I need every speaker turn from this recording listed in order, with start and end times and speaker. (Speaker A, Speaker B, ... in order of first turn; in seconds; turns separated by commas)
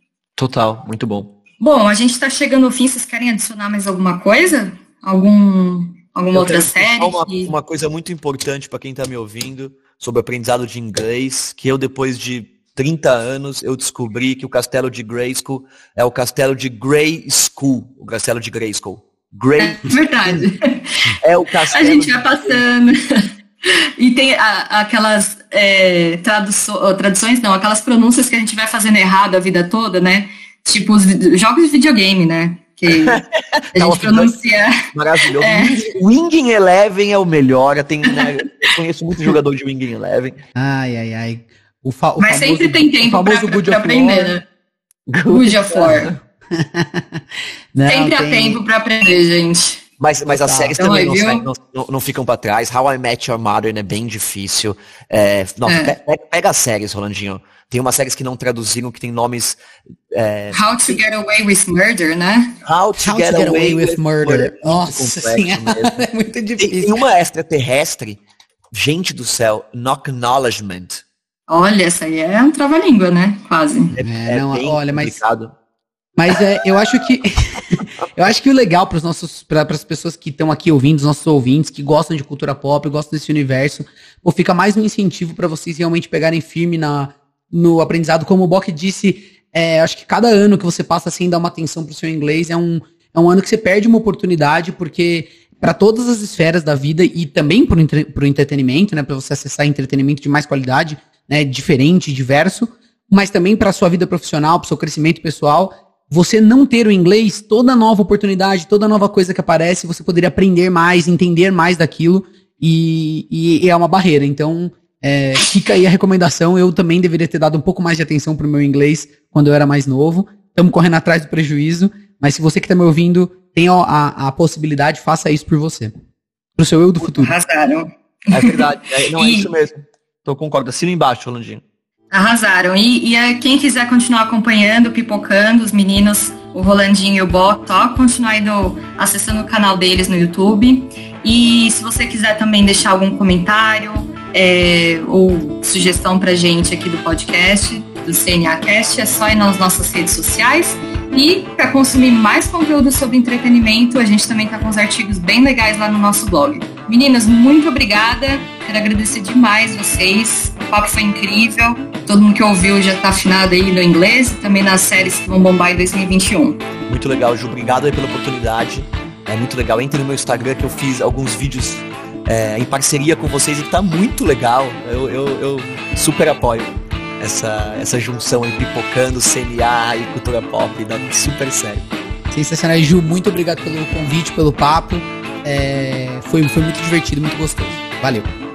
Speaker A: 0.4-1.3, Speaker B: 1.6-7.5, Speaker A: 6.3-19.9, Speaker B: 19.6-21.0, Speaker A: 21.2-22.6, Speaker B: 21.7-33.2, Speaker A: 32.9-34.3, Speaker B: 33.7-35.8, Speaker A: 34.9-40.4, Speaker B: 38.0-38.3, Speaker C: 40.5-44.4, Speaker B: 42.2-44.4, Speaker A: 45.1-46.1, Speaker B: 45.3-46.1, Speaker C: 46.5-48.6, Speaker B: 47.9-49.8, Speaker A: 50.0-59.6, Speaker C: 50.3-50.8, Speaker B: 50.8-51.5, Speaker B: 55.6-55.9, Speaker A: 60.1-61.0, Speaker B: 60.5-62.5, Speaker A: 62.6-66.0, Speaker C: 63.0-67.0, Speaker A: 66.6-68.2, Speaker A: 68.7-71.0, Speaker B: 71.5-73.9, Speaker A: 73.9-75.5, Speaker C: 74.0-75.2, Speaker C: 76.2-125.9, Speaker C: 126.5-127.3, Speaker B: 127.0-129.5, Speaker A: 128.3-131.6, Speaker B: 132.1-166.6, Speaker A: 166.9-181.8, Speaker C: 182.3-188.3